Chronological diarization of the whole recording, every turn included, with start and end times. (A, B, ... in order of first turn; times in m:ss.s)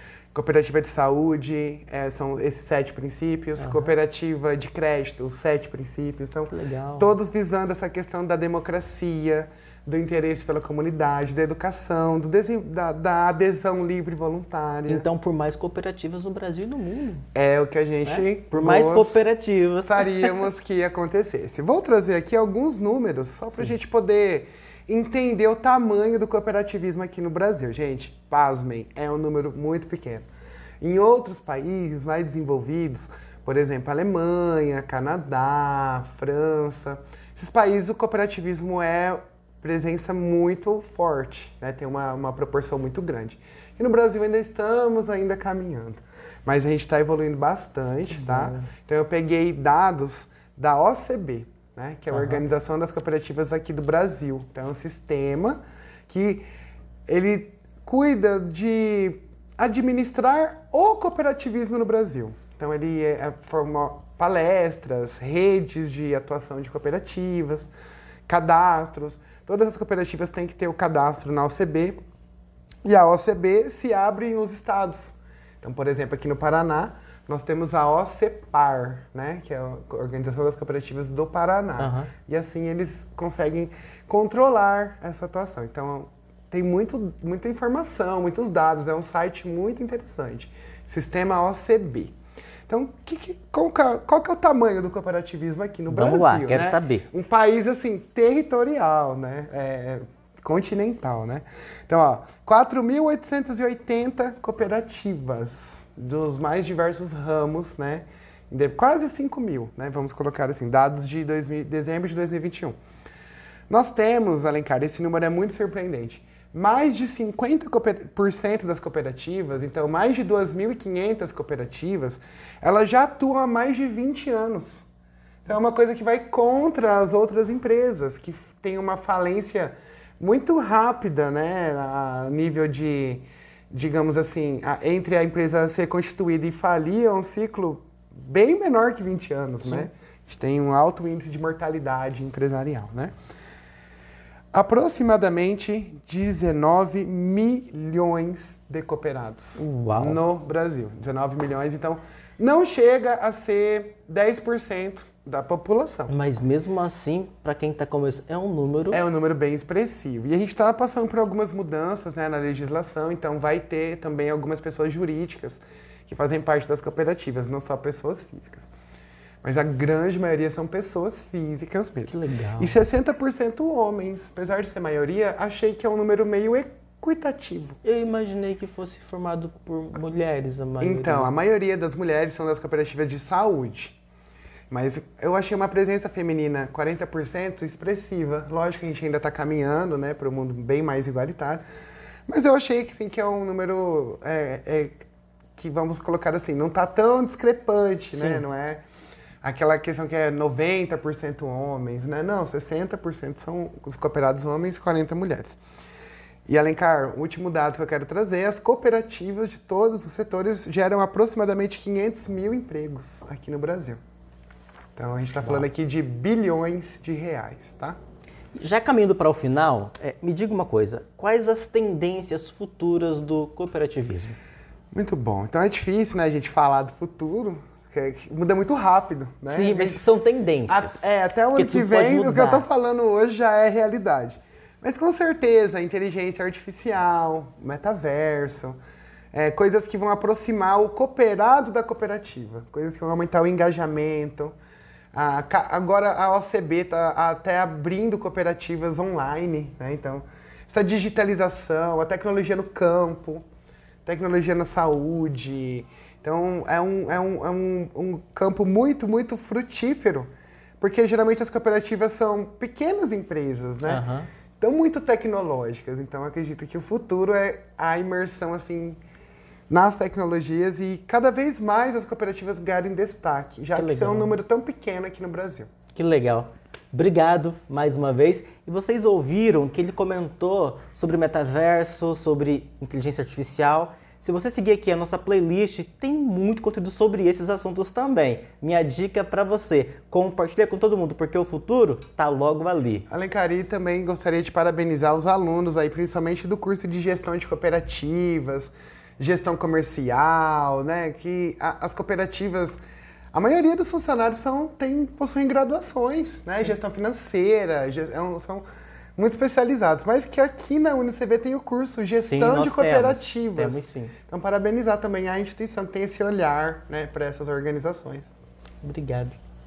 0:00.3-0:15.1 A
0:03.6-0:03.9 B
0:06.5-0:07.2 B
0:14.9-0:17.2 B
0:17.3-0:19.2 A
0:18.0-0:20.3 B
0:19.8-0:30.3 A
0:30.8-0:56.4 A
0:48.1-0:48.7 B
0:52.1-0:52.4 B
0:57.1-1:07.7 A
1:08.3-1:12.0 A
1:12.8-1:32.2 A
1:21.8-1:22.1 B
1:32.7-1:52.8 A
1:35.9-1:37.1 B
1:53.7-2:04.8 A
2:05.5-2:23.1 A
2:19.6-2:19.9 B
2:24.5-2:36.1 A
2:29.6-2:30.2 B
2:36.1-2:39.0 B
2:38.9-2:48.7 A
2:49.4-2:57.8 A
2:52.1-2:52.8 B
2:57.8-3:01.3 B
3:00.8-3:04.0 A
3:04.7-3:11.6 A
3:12.3-3:18.8 A
3:18.1-3:18.4 B
3:19.4-3:25.6 A
3:26.5-3:34.0 A
3:35.0-3:38.0 A
3:35.4-3:35.7 B
3:38.6-3:44.4 B
3:44.9-3:50.0 A
3:49.5-3:52.7 B
3:50.7-3:58.8 A
3:59.3-4:04.5 A
4:05.1-4:13.4 A
4:14.0-4:20.3 A
4:20.8-4:24.0 A
4:23.8-4:24.3 B
4:24.6-4:29.0 A
4:29.7-4:35.7 A
4:33.8-4:34.3 B
4:35.9-4:53.1 B
4:53.1-5:02.8 A
5:03.3-5:08.6 A
5:09.2-5:18.3 A
5:12.2-5:14.1 B
5:18.8-5:19.4 B